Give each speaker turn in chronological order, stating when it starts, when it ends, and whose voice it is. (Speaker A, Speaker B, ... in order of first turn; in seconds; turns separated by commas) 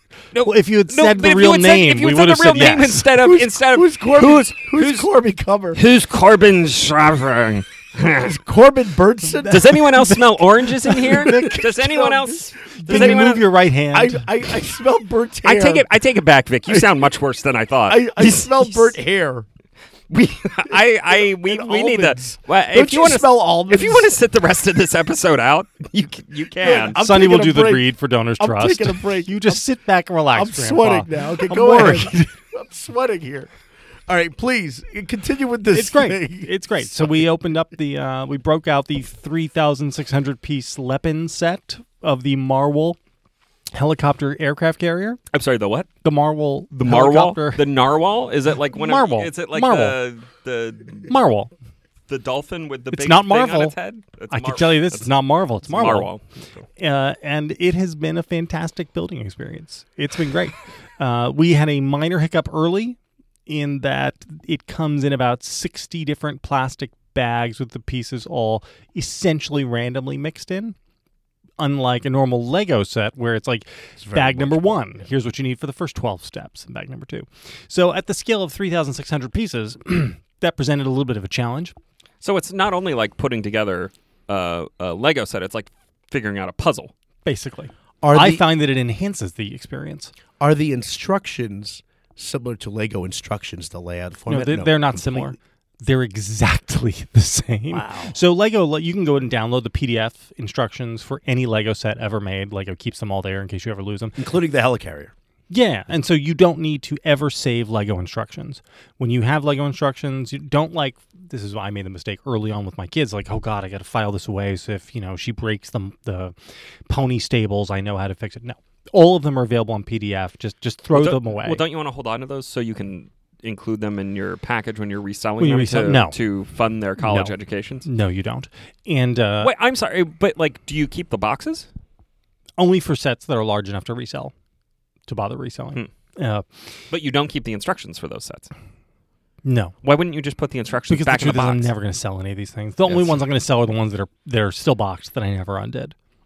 Speaker A: 0.3-5.1, Speaker B: 0.5-3.1, Speaker C: 3.2-5.8, Speaker A: 5.7-8.4, Speaker C: 8.2-9.8, Speaker B: 9.3-11.7, Speaker A: 9.5-13.5, Speaker C: 11.3-13.3, Speaker B: 12.8-14.3, Speaker C: 13.9-15.8, Speaker A: 15.4-19.0, Speaker C: 17.9-19.5, Speaker A: 20.1-27.0, Speaker C: 20.1-24.1, Speaker C: 26.6-29.6, Speaker B: 27.0-32.3, Speaker C: 30.3-33.5, Speaker C: 34.1-37.1, Speaker B: 35.7-43.0, Speaker B: 43.7-45.2, Speaker A: 45.3-45.9, Speaker B: 46.0-47.6, Speaker A: 46.8-51.1, Speaker B: 48.7-50.0, Speaker B: 51.1-51.5, Speaker A: 52.1-55.1, Speaker B: 52.9-53.8, Speaker B: 54.3-56.1, Speaker A: 55.6-56.2, Speaker B: 56.8-70.8, Speaker B: 71.6-81.8, Speaker C: 74.0-75.1, Speaker A: 82.2-86.9, Speaker B: 87.2-90.1, Speaker C: 88.0-88.5, Speaker C: 90.4-95.4, Speaker B: 94.3-104.2, Speaker C: 104.2-105.1, Speaker B: 105.5-116.3, Speaker B: 116.9-121.6, Speaker A: 120.9-127.9, Speaker B: 125.4-126.2, Speaker B: 127.0-129.5, Speaker A: 129.4-131.7, Speaker B: 132.6-134.3, Speaker B: 135.1-136.8, Speaker A: 136.9-138.5, Speaker B: 139.4-139.8, Speaker A: 139.8-141.7, Speaker B: 140.9-145.9, Speaker C: 142.9-143.2